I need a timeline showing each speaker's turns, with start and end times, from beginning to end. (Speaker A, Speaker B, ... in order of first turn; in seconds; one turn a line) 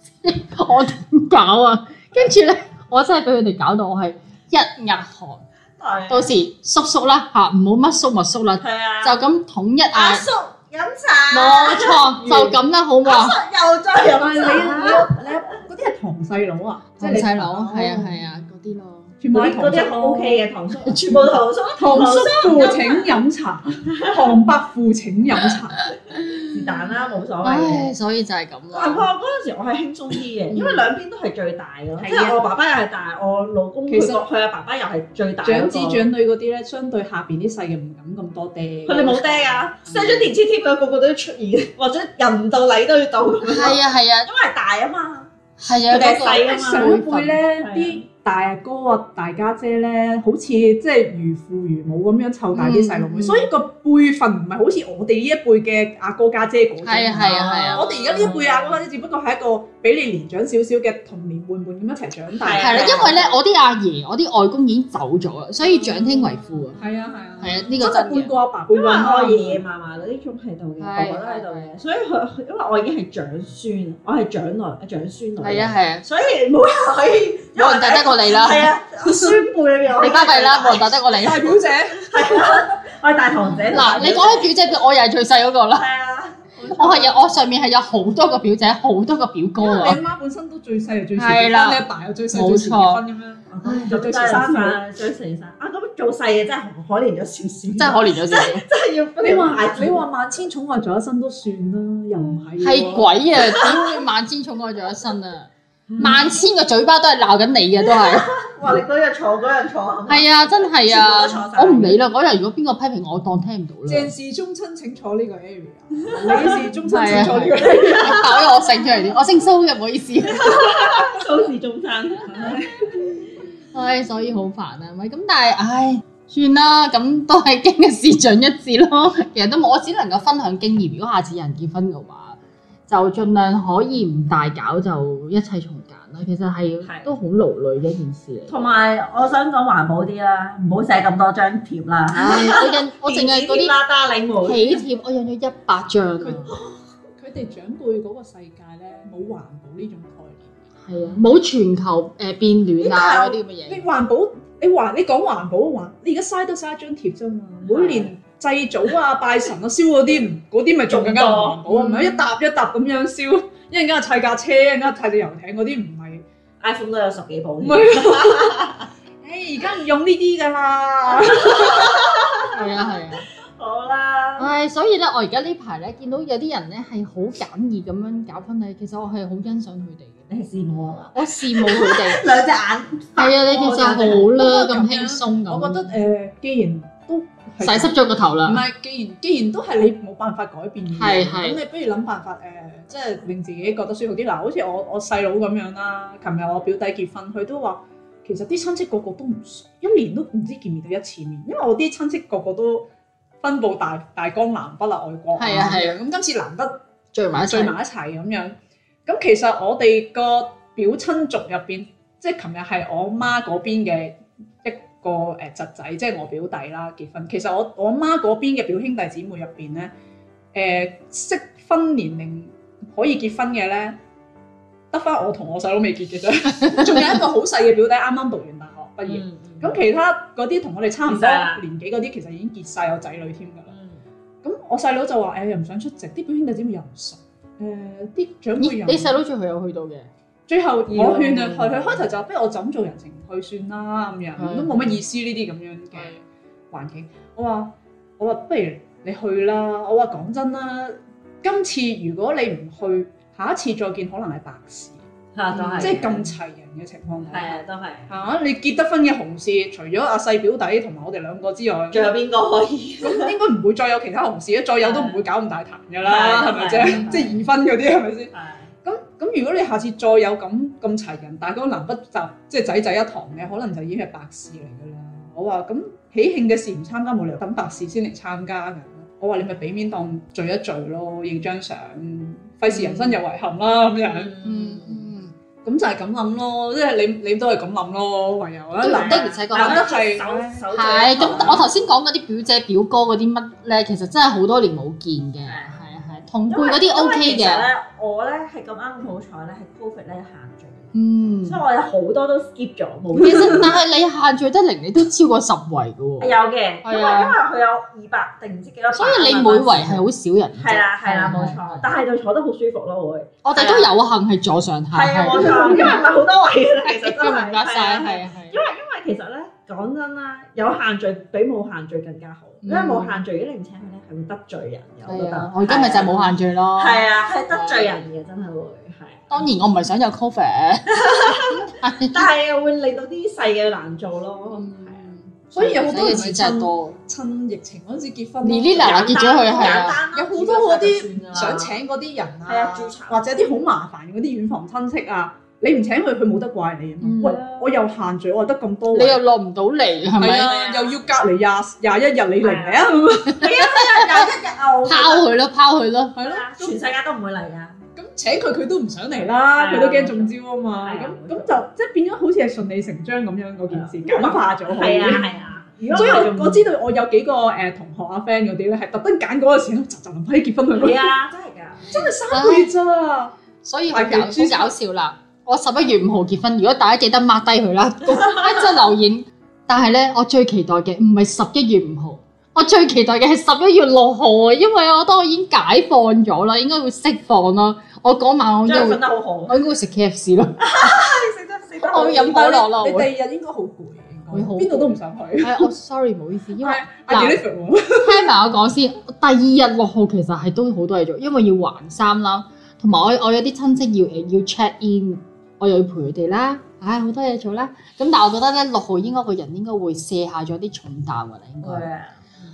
Speaker A: 0.2-5.4
Speaker B: 5.8-6.3
Speaker A: 6.1-10.2
Speaker B: 8.6-9.2
Speaker B: 9.9-15.3
Speaker A: 11.3-13.4
Speaker C: 14.1-18.2
Speaker A: 17.0-19.1
Speaker C: 19.2-20.5
Speaker B: 19.3-23.2
Speaker C: 21.8-25.9
Speaker A: 26.1-26.6
Speaker B: 26.5-27.9
Speaker A: 27.4-29.1
Speaker B: 28.7-36.1
Speaker A: 30.5-30.9
Speaker C: 32.0-32.4
Speaker C: 33.9-34.2
Speaker C: 35.4-40.3
Speaker B: 38.9-45.3
Speaker A: 43.4-44.3
Speaker A: 45.6-47.4
Speaker B: 45.9-48.0
Speaker C: 46.3-63.1
Speaker A: 52.5-53.5
Speaker A: 56.8-58.4
Speaker B: 57.2-58.7
Speaker B: 62.3-63.4
Speaker A: 62.6-66.8
Speaker C: 66.8-69.6
Speaker A: 67.4-68.3
Speaker B: 68.7-81.0
Speaker A: 70.8-71.7
Speaker A: 75.4-76.0
Speaker A: 77.6-78.7
Speaker C: 79.0-79.3
Speaker A: 80.0-81.5
Speaker C: 81.1-82.1
Speaker B: 82.0-84.5
Speaker A: 83.7-85.9
Speaker B: 85.7-87.3
Speaker A: 86.7-90.0
Speaker C: 89.6-94.8
Speaker A: 91.2-91.8
Speaker A: 92.3-93.0
Speaker B: 93.5-100.0
Speaker A: 93.6-94.0
Speaker A: 97.8-98.6
Speaker C: 99.2-103.8
Speaker A: 102.6-108.3
Speaker B: 103.4-103.8
Speaker B: 105.9-106.3
Speaker B: 107.9-112.0
Speaker A: 110.1-114.1
Speaker C: 113.9-118.3
Speaker B: 116.1-116.7
Speaker A: 116.9-121.0
Speaker B: 117.6-118.9
Speaker B: 120.3-123.0
Speaker C: 122.3-123.0
Speaker A: 123.7-138.7
Speaker B: 136.8-137.1
Speaker B: 138.5-144.8
Speaker A: 142.1-143.8
Speaker A: 144.4-146.6
Speaker C: 147.2-150.6
Speaker A: 150.8-153.8
Speaker B: 152.8-153.4
Speaker C: 153.7-166.2
Speaker B: 157.6-158.1
Speaker B: 160.9-161.6
Speaker A: 161.7-162.2
Speaker B: 166.6-168.9
Speaker C: 167.6-168.7
Speaker C: 169.2-172.1
Speaker B: 171.1-172.7
Speaker A: 172.5-173.2
Speaker B: 173.6-174.5
Speaker A: 174.4-180.2
Speaker B: 180.3-184.3
Speaker A: 181.1-182.2
Speaker A: 183.2-185.9
Speaker C: 183.9-202.9
Speaker A: 187.6-188.6
Speaker A: 190.9-191.6
Speaker C: 203.4-206.7
Speaker A: 205.4-205.9
Speaker A: 207.1-207.7
Speaker C: 207.4-219.9
Speaker C: 220.5-224.0
Speaker C: 224.9-233.7
Speaker A: 226.6-227.2
Speaker B: 229.1-229.8
Speaker B: 231.1-231.6
Speaker B: 233.7-234.0
Speaker C: 234.4-239.2
Speaker A: 238.6-240.1
Speaker C: 240.5-255.1
Speaker B: 240.9-242.0
Speaker A: 244.4-245.0
Speaker B: 255.3-256.3
Speaker A: 255.6-255.9
Speaker C: 255.8-262.2
Speaker B: 257.3-258.1
Speaker B: 261.9-263.3
Speaker C: 263.0-268.3
Speaker B: 264.8-265.2
Speaker B: 266.0-267.4
Speaker B: 268.3-268.7
Speaker C: 268.9-284.3
Speaker B: 282.7-283.2
Speaker B: 284.0-285.0
Speaker A: 284.4-285.3
Speaker C: 285.6-291.6
Speaker B: 288.8-291.7
Speaker A: 288.8-289.9
Speaker A: 290.7-297.7
Speaker B: 295.4-295.8
Speaker B: 296.5-300.9
Speaker A: 300.9-301.6
Speaker B: 301.4-303.8
Speaker A: 303.1-307.4
Speaker B: 306.2-310.0
Speaker A: 308.9-311.9
Speaker B: 310.6-313.9
Speaker A: 313.4-316.0
Speaker B: 314.9-329.5
Speaker C: 315.4-316.0
Speaker A: 316.9-318.6
Speaker A: 322.6-323.2
Speaker A: 325.1-328.0
Speaker A: 329.3-332.3
Speaker B: 330.9-335.0
Speaker A: 334.5-337.0
Speaker C: 335.5-339.1
Speaker A: 338.4-340.0
Speaker B: 338.8-341.8
Speaker C: 339.6-349.2
Speaker B: 342.4-343.2
Speaker A: 347.0-347.4
Speaker B: 347.2-347.8
Speaker A: 348.9-350.5
Speaker C: 350.2-353.6
Speaker B: 350.4-351.1
Speaker B: 352.4-355.3
Speaker A: 353.4-354.3
Speaker A: 354.9-356.2
Speaker C: 356.1-356.8
Speaker B: 356.2-357.8
Speaker C: 357.9-365.3
Speaker B: 359.6-361.6
Speaker B: 363.7-366.6
Speaker C: 365.9-371.1
Speaker B: 370.8-371.9
Speaker C: 371.9-373.4
Speaker A: 372.3-372.7
Speaker A: 373.6-390.7
Speaker C: 373.9-374.8
Speaker B: 378.2-378.6
Speaker B: 388.6-389.6
Speaker B: 390.6-392.4
Speaker A: 391.8-393.1
Speaker C: 391.9-395.7
Speaker A: 394.3-397.4
Speaker C: 396.6-398.3
Speaker A: 398.0-411.9
Speaker B: 411.6-412.3